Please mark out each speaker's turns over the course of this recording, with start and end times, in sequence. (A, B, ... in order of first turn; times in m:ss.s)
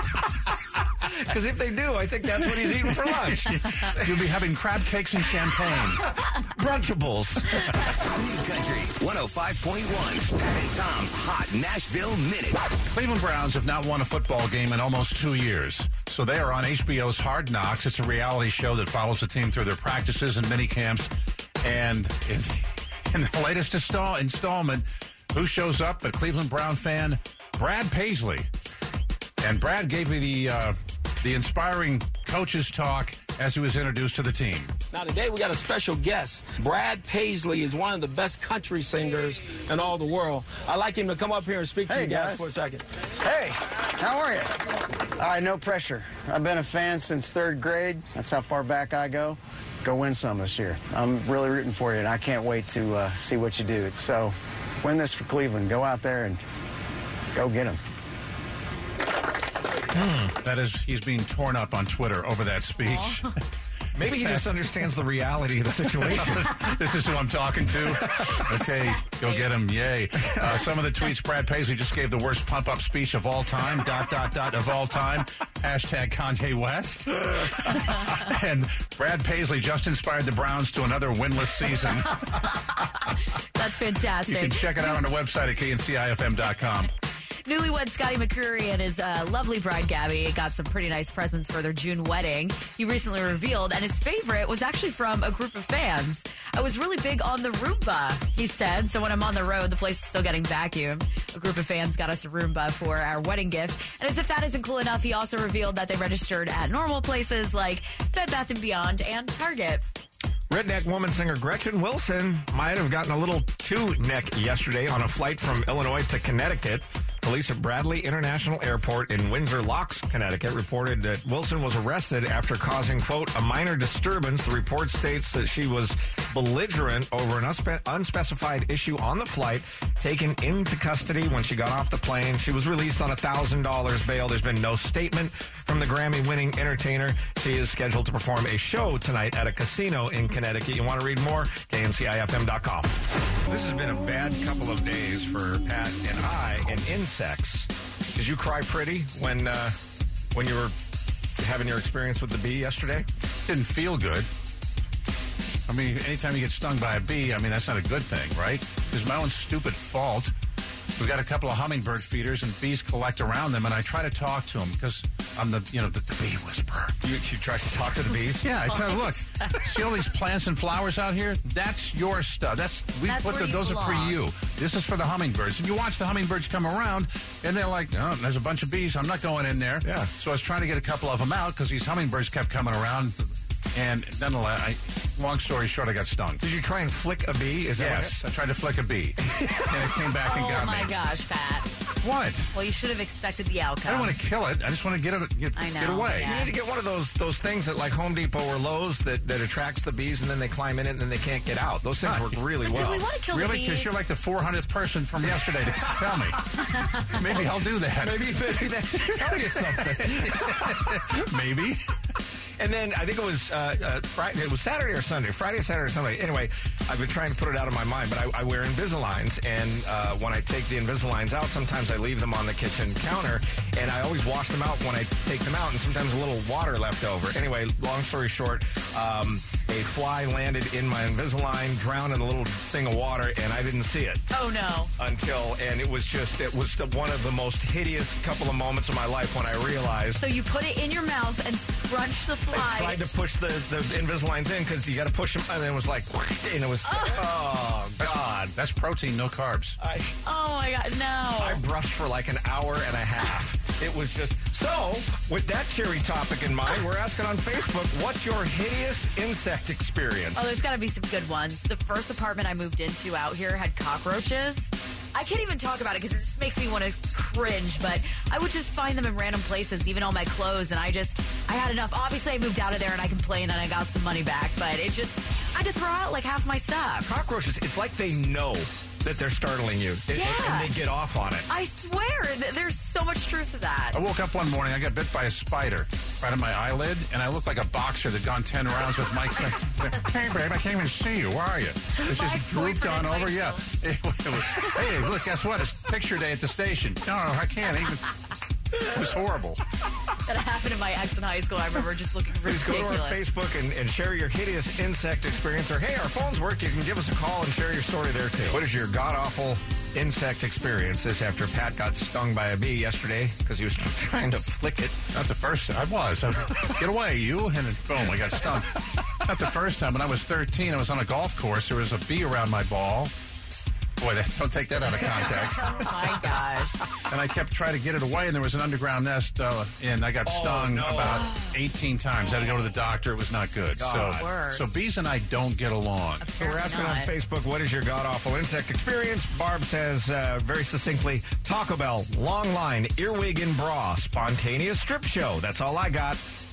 0:01.0-0:03.9 A
0:03.2-0:06.0 B
0:06.3-0:07.9 A
0:08.1-0:12.6 C
0:12.9-0:21.1 B
0:21.6-0:28.5 B
0:29.4-0:34.7 B
0:34.9-0:42.9 D
0:41.9-0:42.5 E
0:43.2-0:44.6 E
0:45.2-0:56.4 E
0:57.3-0:57.8 E
0:59.9-1:00.3 A
1:00.4-1:03.3 B
1:02.8-1:03.2 F
1:03.9-1:06.6 A
1:04.0-1:04.6 B
1:06.1-1:22.6 B
1:23.5-1:25.0 F
1:24.3-1:26.9 B
1:27.4-1:49.8 F
1:50.5-2:23.0 A
2:23.5-2:29.8 A
2:30.3-2:30.8 A
2:31.4-2:33.1 A
2:33.4-2:34.3 B
2:35.7-2:40.3 B
2:41.0-2:47.0 B
2:47.0-2:48.5 A
2:48.4-3:06.4 B
2:48.7-2:49.8 F
2:53.1-2:54.2 F
2:59.8-3:00.1 A
3:06.4-3:08.1 A
3:07.8-3:10.9 B
3:09.2-3:09.9 A
3:10.2-3:11.7 F
3:12.0-3:12.5 B
3:12.5-3:14.2 F
3:13.9-3:16.4 B
3:15.6-3:16.5 F
3:16.2-3:23.0 A
3:22.0-3:26.4 B
3:22.6-3:24.0 F
3:26.8-3:27.0 F
3:27.0-3:28.4 B
3:28.0-3:30.9 A
3:29.0-3:31.8 B
3:32.6-3:54.2 A
3:54.3-3:54.9 F
3:55.0-4:00.2 A
4:00.1-4:03.0 F
4:02.5-4:08.5 A
4:06.9-4:07.2 F
4:08.0-4:09.8 B
4:09.8-4:10.2 A
4:10.2-4:11.6 F
4:11.4-4:20.5 A
4:20.4-4:37.1 F
4:37.0-4:41.5 A
4:40.1-4:40.8 F
4:41.5-4:44.0 F
4:43.9-4:58.1 B
4:51.9-4:53.6 F
4:58.8-4:59.6 B
5:00.2-5:03.2 F
5:02.4-5:15.0 A
5:15.1-5:23.1 B
5:24.0-5:25.9 B
5:25.6-5:26.9 F
5:27.0-5:36.3 B
5:30.2-5:31.3 A
5:31.0-5:31.5 F
5:33.8-5:34.2 A
5:33.9-5:34.8 F
5:36.2-5:37.1 F
5:36.4-5:46.2 A